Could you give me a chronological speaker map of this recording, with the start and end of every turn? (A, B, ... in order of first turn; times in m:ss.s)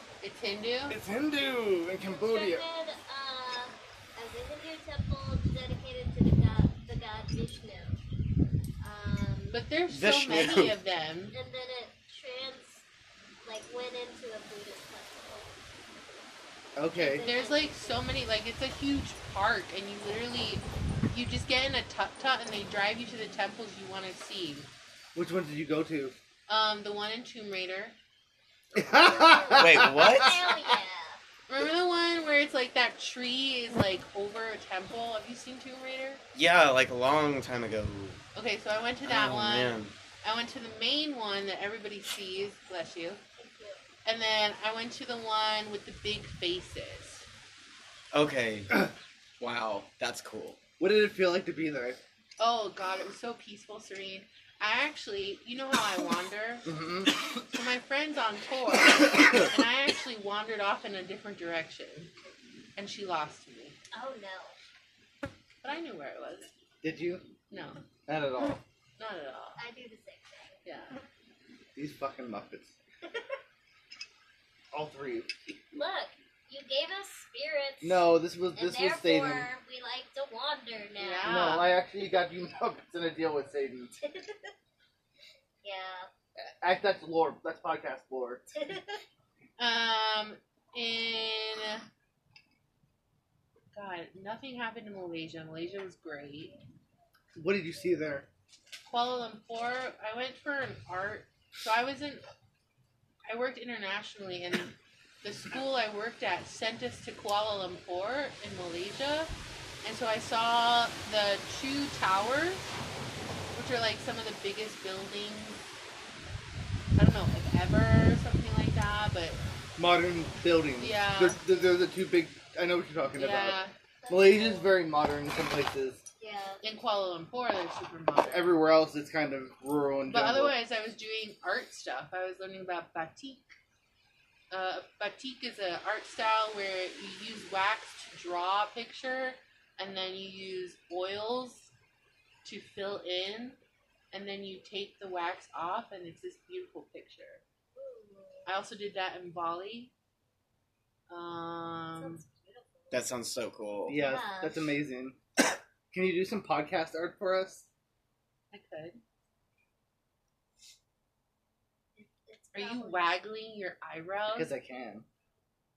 0:00.2-0:01.0 A
0:00.9-0:02.6 B
0:02.0-0:08.0 C
0:08.8-0:09.6 C
0:09.5-0:11.3 A
0:09.9-0:10.7 D
0:11.3-0:12.8 C
0:13.4-0:15.5 C
0:16.8-0:17.3 B
0:16.9-0:18.1 C
0:17.0-0:24.7 A
0:25.1-0:26.1 B
0:26.5-0:28.0 A
0:28.7-0:30.7 B
0:28.9-0:31.2 C
0:29.5-0:30.4 D
0:31.5-0:36.2 A
0:36.3-0:38.2 D
0:38.3-0:43.2 A
0:39.0-0:39.9 D
0:43.4-0:43.8 C
0:44.0-0:47.2 A
0:48.1-0:48.8 D
0:49.4-0:50.6 D
0:50.8-0:52.0 B
0:52.4-0:56.7 A
0:56.6-0:57.4 B
0:57.4-1:02.1 A
0:59.0-0:59.4 B
1:02.8-1:03.8 A
1:03.9-1:04.6 C
1:05.6-1:06.5 A
1:06.8-1:07.2 B
1:07.5-1:07.8 A
1:08.1-1:08.6 B
1:09.0-1:09.6 A
1:09.6-1:10.6 C
1:10.6-1:11.0 A
1:11.7-1:12.7 B
1:14.7-1:15.3 B
1:15.7-1:21.6 C
1:17.8-1:19.5 B
1:21.0-1:21.7 A
1:21.2-1:24.0 B
1:24.0-1:24.5 C
1:25.6-1:26.1 C
1:26.4-1:28.5 B
1:28.5-1:29.0 C
1:29.6-1:31.8 A
1:33.7-1:36.6 A
1:37.4-1:38.3 B
1:38.8-1:42.2 A
1:43.3-1:49.3 A
1:49.8-1:52.6 A
1:53.5-1:55.6 A
1:57.0-1:59.4 A
1:59.8-2:03.6 B
2:00.8-2:01.4 A
2:03.2-2:03.7 A
2:04.0-2:04.8 C
2:04.1-2:06.0 B
2:06.2-2:06.6 C
2:06.6-2:08.6 A
2:08.3-2:10.5 B
2:10.1-2:13.5 A
2:14.5-2:21.7 A
2:22.4-2:23.6 A
2:24.1-2:27.4 A
2:27.7-2:28.5 C
2:28.4-2:29.9 A
2:31.1-2:32.2 A
2:32.0-2:33.0 C
2:32.9-2:34.0 D
2:33.9-2:35.2 B
2:34.0-2:34.6 C
2:35.9-2:37.7 B
2:38.5-2:39.0 A
2:42.0-2:43.1 C
2:42.5-2:44.5 A
2:44.3-2:45.0 B